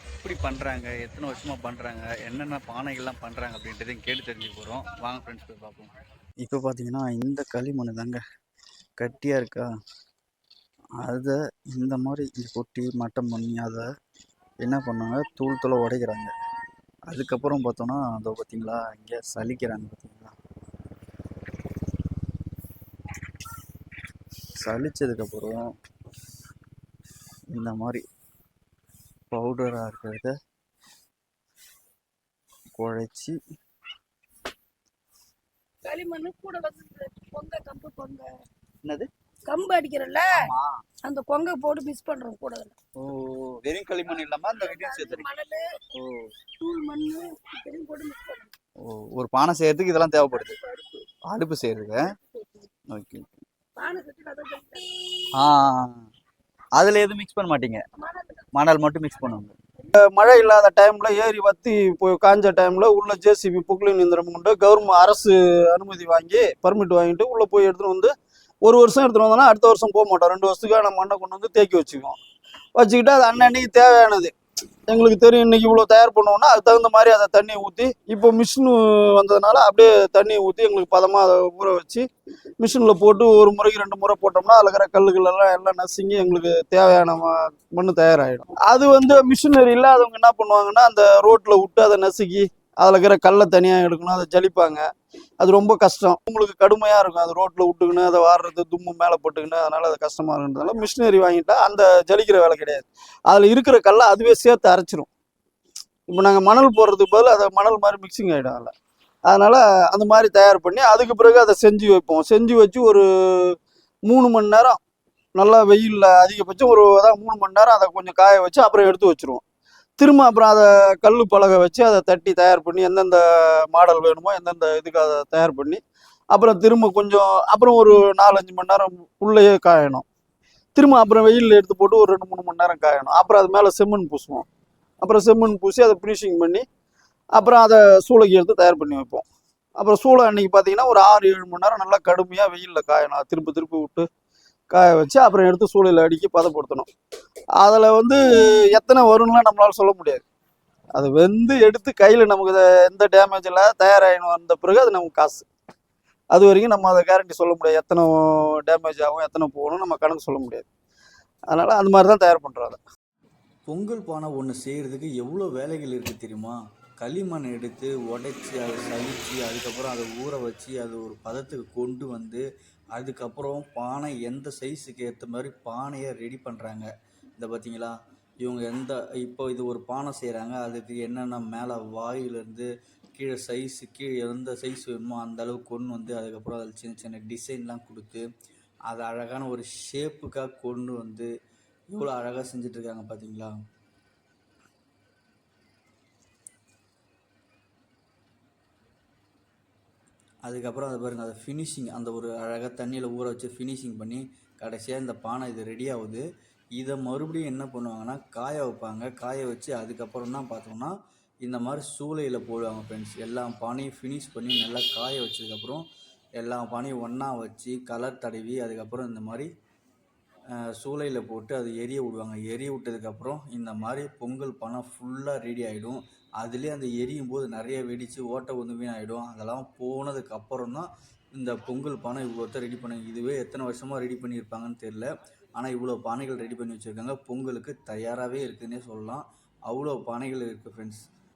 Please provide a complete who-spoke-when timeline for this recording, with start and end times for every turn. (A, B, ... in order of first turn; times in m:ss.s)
0:00.2-0:08.2 A
0:09.0-0:09.6 A
0:11.0-0:13.8 A
0:14.6-0:16.3 A
0:17.1-0:20.3 A
0:24.6-0:25.7 A
0:27.5-0:28.0 A
0:29.3-0:30.3 A
0:32.7-0:33.3 A
0:35.8-0:38.3 B
0:38.8-0:39.1 A
0:39.5-0:40.3 B
0:40.4-0:40.7 A
0:41.0-0:42.7 B
0:43.0-0:45.2 A
0:44.5-0:45.7 B
0:45.9-0:46.3 A
0:46.6-0:48.5 B
0:48.8-0:50.6 A
0:50.2-0:51.0 B
0:51.2-0:52.1 A
0:52.9-0:53.4 A
0:53.8-0:54.9 B
0:55.3-0:56.0 A
0:56.8-0:57.8 A
0:58.0-0:58.4 B
0:58.5-0:59.5 A
1:00.0-1:08.1 C
1:08.6-1:12.2 C
1:12.8-1:14.3 C
1:14.9-1:22.0 C
1:22.6-1:34.8 C
1:35.4-1:45.1 C
1:46.1-1:48.7 C
1:49.3-1:53.5 C
1:54.1-1:54.8 C
1:55.4-1:59.4 C
2:00.0-2:05.8 C
2:06.3-2:10.0 C
2:10.8-2:14.5 C
2:15.0-2:16.6 C
2:17.4-2:19.2 C
2:19.8-2:24.0 C
2:24.7-2:26.9 C
2:27.6-2:30.2 C
2:30.9-2:35.4 C
2:36.3-2:40.7 C
2:41.5-2:42.8 C
2:43.7-3:08.2 A
3:08.9-3:11.3 A
3:11.9-3:13.6 A
3:20.4-3:26.2 A
3:26.8-3:35.9 A
3:36.4-3:39.5 A
3:40.6-4:01.0 A